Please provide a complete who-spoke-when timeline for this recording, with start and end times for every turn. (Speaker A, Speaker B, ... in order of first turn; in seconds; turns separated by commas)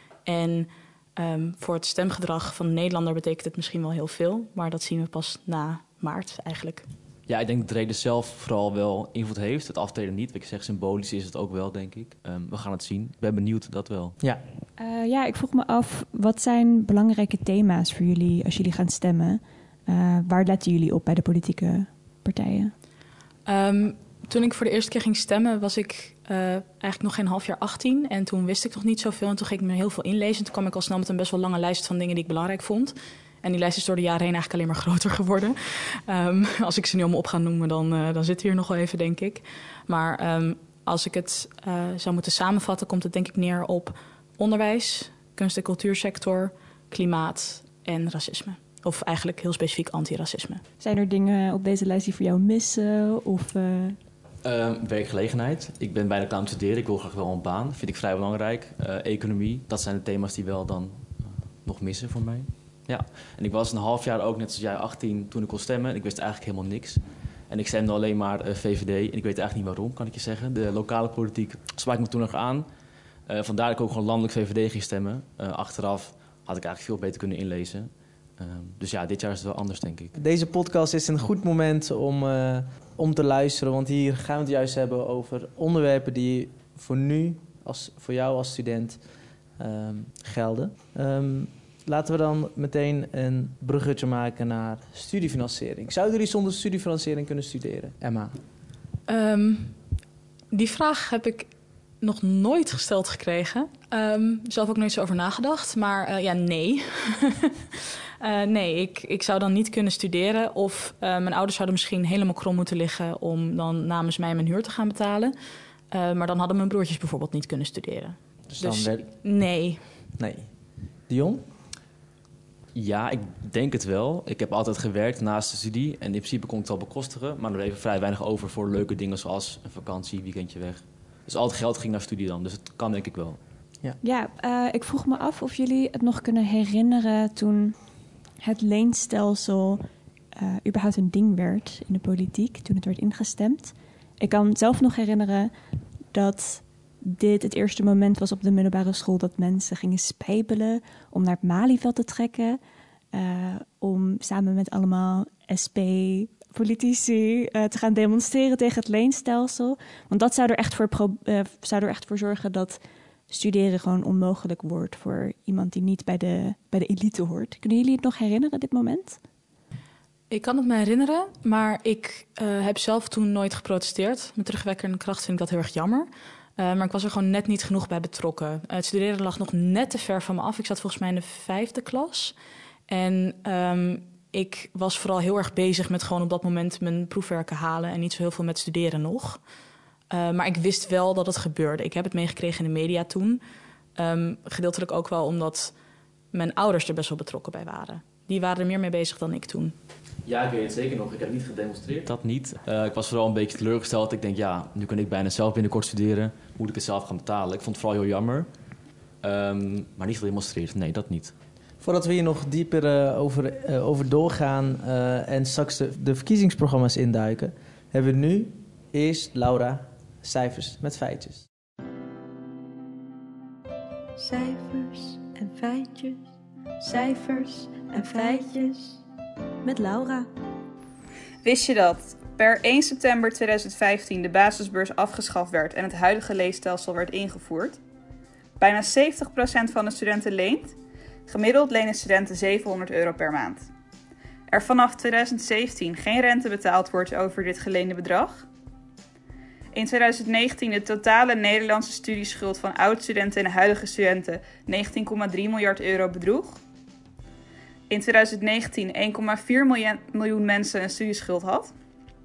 Speaker A: 0.2-6.8, Speaker B: 7.3-14.2, Speaker C: 14.8-22.7, Speaker A: 23.4-50.6, Speaker C: 50.8-54.0, Speaker B: 54.4-72.7, Speaker B: 73.3-80.2, Speaker D: 80.2-89.0, Speaker D: 89.6-98.4, Speaker A: 99.1-99.8, Speaker A: 100.5-101.5, Speaker A: 102.0-115.3, Speaker A: 115.9-119.8, Speaker D: 118.5-119.0, Speaker D: 120.2-120.5, Speaker D: 121.1-121.4, Speaker B: 122.7-133.4, Speaker C: 134.0-137.8, Speaker C: 138.4-139.8, Speaker C: 140.3-145.5, Speaker C: 146.1-152.6, Speaker C: 153.1-169.2, Speaker A: 170.3-182.3, Speaker A: 182.9-189.4, Speaker A: 190.1-193.4, Speaker A: 194.0-195.7, Speaker A: 196.3-199.7, Speaker B: 200.2-208.5, Speaker B: 209.2-211.3, Speaker D: 211.8-221.5, Speaker E: 224.2-226.2, Speaker E: 226.8-229.0, Speaker E: 229.6-230.3, Speaker F: 231.4-237.8, Speaker F: 238.6-240.7, Speaker F: 241.3-243.7, Speaker F: 244.5-248.5, Speaker F: 249.7-256.6, Speaker F: 257.9-261.7